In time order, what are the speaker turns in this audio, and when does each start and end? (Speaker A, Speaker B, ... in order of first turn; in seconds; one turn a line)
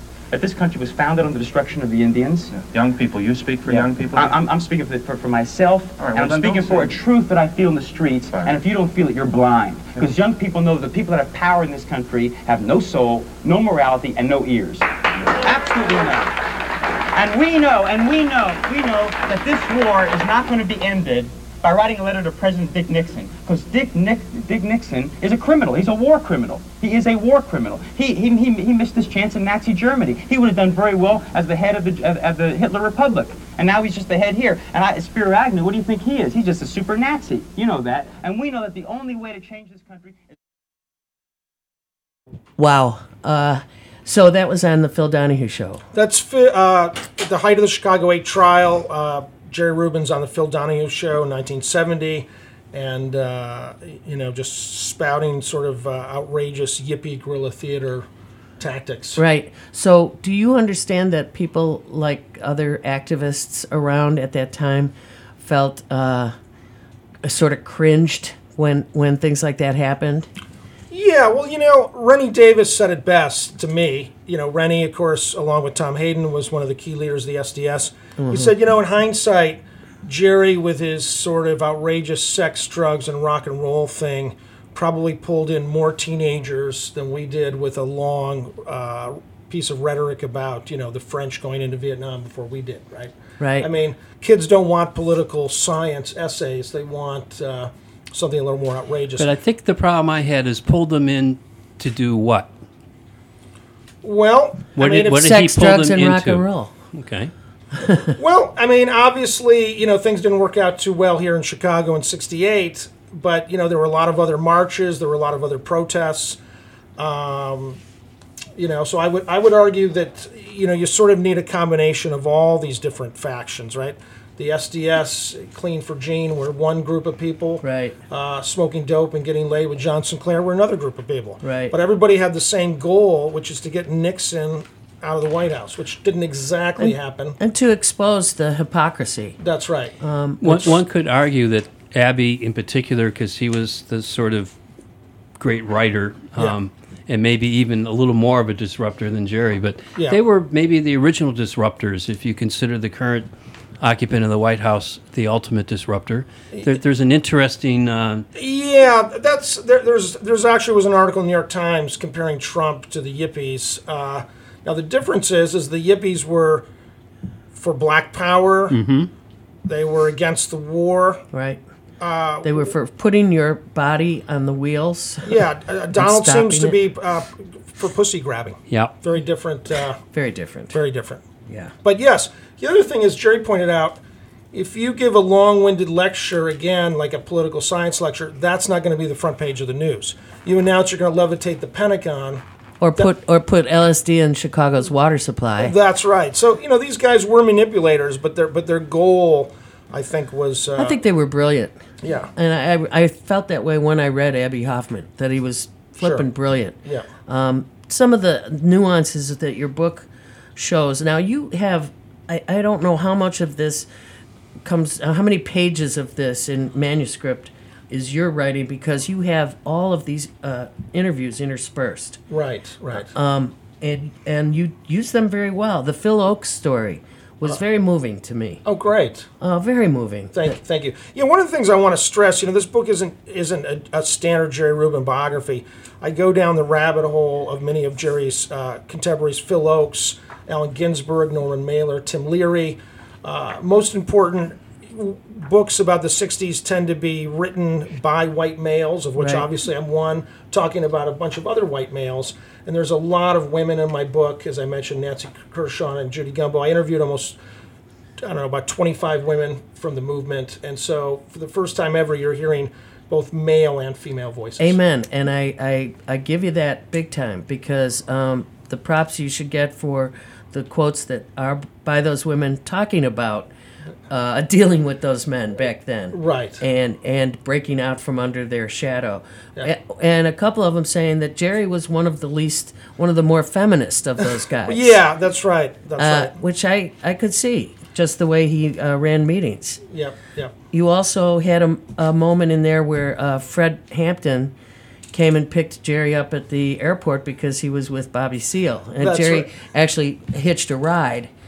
Speaker A: 0.3-2.5
Speaker B: 2.5-4.4
Speaker A: 3.6-16.4
Speaker B: 6.0-6.9
Speaker A: 17.1-40.3
Speaker C: 42.6-45.8
Speaker D: 45.9-58.1
Speaker D: 58.6-59.2
Speaker C: 59.1-66.3
Speaker C: 67.2-70.3
Speaker D: 70.9-99.3
Speaker C: 78.2-78.5
Speaker C: 93.4-93.7
Speaker E: 99.2-102.5
Speaker D: 104.0-105.3
Speaker E: 104.8-107.3
Speaker C: 105.2-106.7
Speaker C: 107.8-108.1
Speaker D: 108.2-116.4
Speaker D: 117.0-117.8
Speaker D: 118.5-137.4
Speaker C: 127.6-128.0
Speaker C: 131.4-131.7
Speaker C: 136.8-139.4
Speaker D: 139.4-139.9
Speaker C: 140.0-140.7
Speaker E: 140.4-144.5
Speaker E: 145.4-158.2
Speaker D: 158.3-166.6
Speaker D: 167.5-168.8
Speaker E: 168.7-169.1
Speaker D: 169.7-171.2
Speaker C: 171.3-171.6
Speaker D: 172.0-172.6
Speaker C: 172.4-175.4
Speaker D: 175.2-180.0
Speaker C: 175.9-176.8
Speaker C: 180.1-180.8
Speaker D: 180.7-181.2
Speaker C: 181.5-181.7
Speaker D: 181.8-184.0
Speaker D: 184.5-192.4
Speaker C: 192.8-195.7
Speaker D: 195.6-201.0
Speaker C: 200.8-201.8
Speaker D: 202.0-202.3
Speaker C: 202.3-213.9
Speaker D: 206.0-206.3
Speaker C: 214.6-222.2
Speaker D: 222.3-223.1
Speaker C: 222.9-228.6
Speaker D: 228.6-229.3
Speaker C: 229.4-230.6
Speaker D: 230.3-257.4
Speaker C: 249.2-249.5
Speaker D: 258.2-264.8
Speaker C: 264.6-273.5
Speaker C: 274.1-285.0
Speaker D: 276.1-276.6
Speaker D: 284.2-286.3
Speaker C: 286.0-289.8
Speaker D: 289.9-290.5
Speaker C: 290.7-294.5
Speaker C: 295.1-301.3
Speaker D: 299.0-299.5